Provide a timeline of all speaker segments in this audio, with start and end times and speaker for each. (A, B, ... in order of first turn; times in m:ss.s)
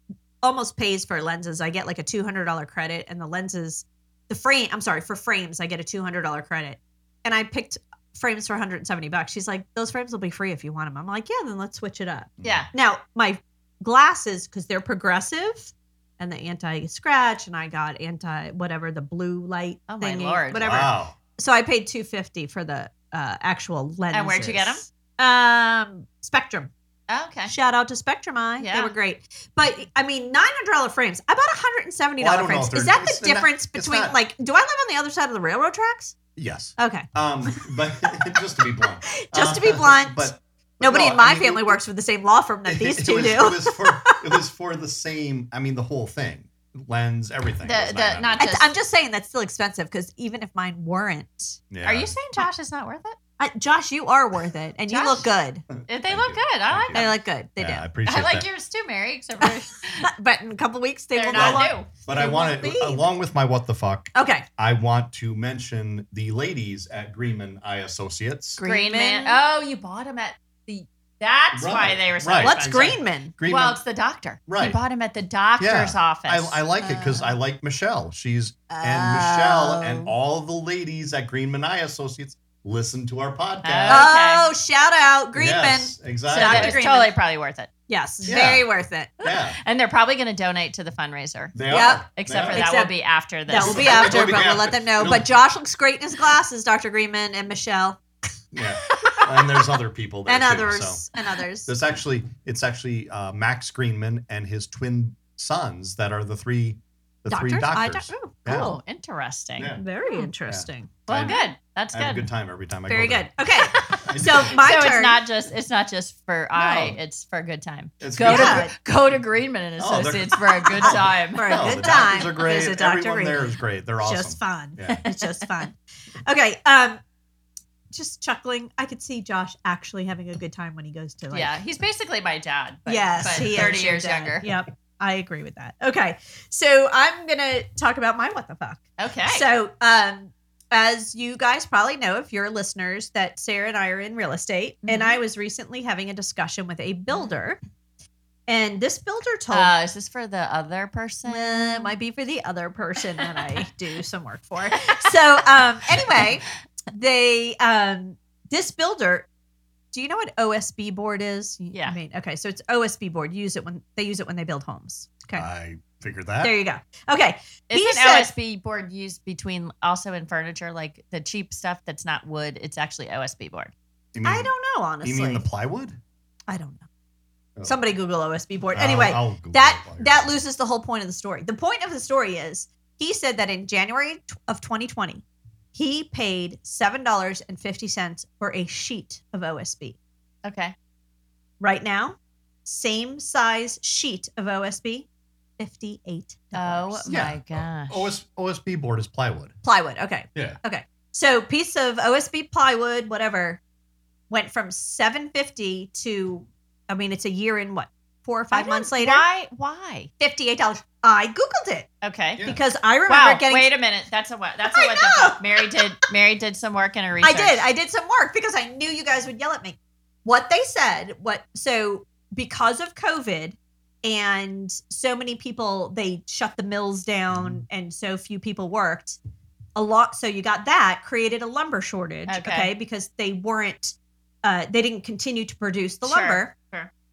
0:00.4-0:26.7 A
0:12.4-0:12.7 B
0:12.4-0:12.7 C
0:19.9-0:20.9 C
0:20.5-0:21.2 B
0:24.1-0:24.8 C
0:27.1-0:27.5 C
0:27.5-0:36.2 A
0:28.6-0:28.9 C
0:32.2-0:34.2 B
0:36.4-0:41.8 B
0:36.8-0:37.7 A
0:39.1-0:44.2 A
0:42.6-0:48.5 B
0:47.6-0:48.7 C
0:48.4-0:51.6 A
0:51.7-0:52.1 B
0:51.8-0:53.2 C
0:53.4-0:55.6 A
0:54.9-0:55.3 C
0:55.7-0:58.5 B
0:55.9-0:57.2 C
0:56.9-0:57.8 A
0:58.0-1:00.1 C
1:00.0-1:03.0 A
1:01.1-1:01.9 C
1:01.3-1:08.6 B
1:04.1-1:04.4 A
1:08.6-1:09.4 A
1:08.6-1:17.1 C
1:11.5-1:13.8 B
1:12.4-1:13.3 A
1:14.5-1:14.8 B
1:15.6-1:24.1 B
1:16.9-1:17.2 A
1:18.7-1:20.1 A
1:23.6-1:24.5 C
1:23.9-1:27.1 A
1:25.3-1:26.8 B
1:26.3-1:27.7 C
1:27.9-1:29.1 A
1:28.3-1:28.6 B
1:29.2-1:29.6 B
1:29.2-1:31.6 C
1:31.5-1:32.7 B
1:31.7-1:32.9 A
1:32.2-1:34.2 C
1:33.5-1:38.0 A
1:33.5-1:35.3 B
1:38.5-1:41.0 B
1:39.0-1:39.3 A
1:40.3-1:41.7 A
1:41.6-1:48.8 B
1:47.3-1:48.8 A
1:48.5-1:50.3 C
1:49.6-1:49.8 B
1:49.8-1:51.4 A
1:50.5-1:51.4 B
1:51.1-1:52.3 C
1:51.9-1:53.3 B
1:52.9-1:55.2 A
1:53.7-2:01.7 C
1:53.9-1:54.6 B
1:56.5-1:57.0 B
1:58.0-1:58.7 B
1:58.2-1:58.7 A
1:59.8-2:05.0 B
2:00.7-2:03.5 A
2:04.0-2:07.0 A
2:04.8-2:05.6 C
2:07.9-2:11.6 A
2:11.3-2:14.4 C
2:12.9-2:27.6 A
2:19.0-2:19.5 C
2:24.8-2:25.2 C
2:28.5-2:29.7 A
2:29.5-2:31.9 C
2:31.2-2:39.3 A
2:34.8-2:35.1 C
2:39.9-2:45.4 A
2:41.7-2:42.0 C
2:45.4-2:46.5 B
2:46.4-2:48.3 A
2:47.7-2:53.7 C
2:54.1-2:54.5 B
2:54.2-2:55.4 A
2:55.0-2:56.0 B
2:56.5-2:56.9 A
2:57.6-3:10.0 A
2:58.7-3:00.3 B
3:10.4-3:10.7 C
3:11.6-3:15.1 A
3:15.6-3:17.1 A
3:16.5-3:18.1 C
3:17.0-3:19.5 B
3:19.6-3:23.6 A
3:24.3-3:29.2 A
3:28.5-3:30.1 C
3:30.2-3:31.9 A
3:32.0-3:32.5 C
3:32.4-3:33.7 A
3:33.1-3:37.6 C
3:34.6-3:35.8 A
3:37.2-3:49.2 A
3:47.3-3:47.6 B
3:49.8-3:56.5 A
3:52.3-3:52.7 C
3:56.0-3:56.9 C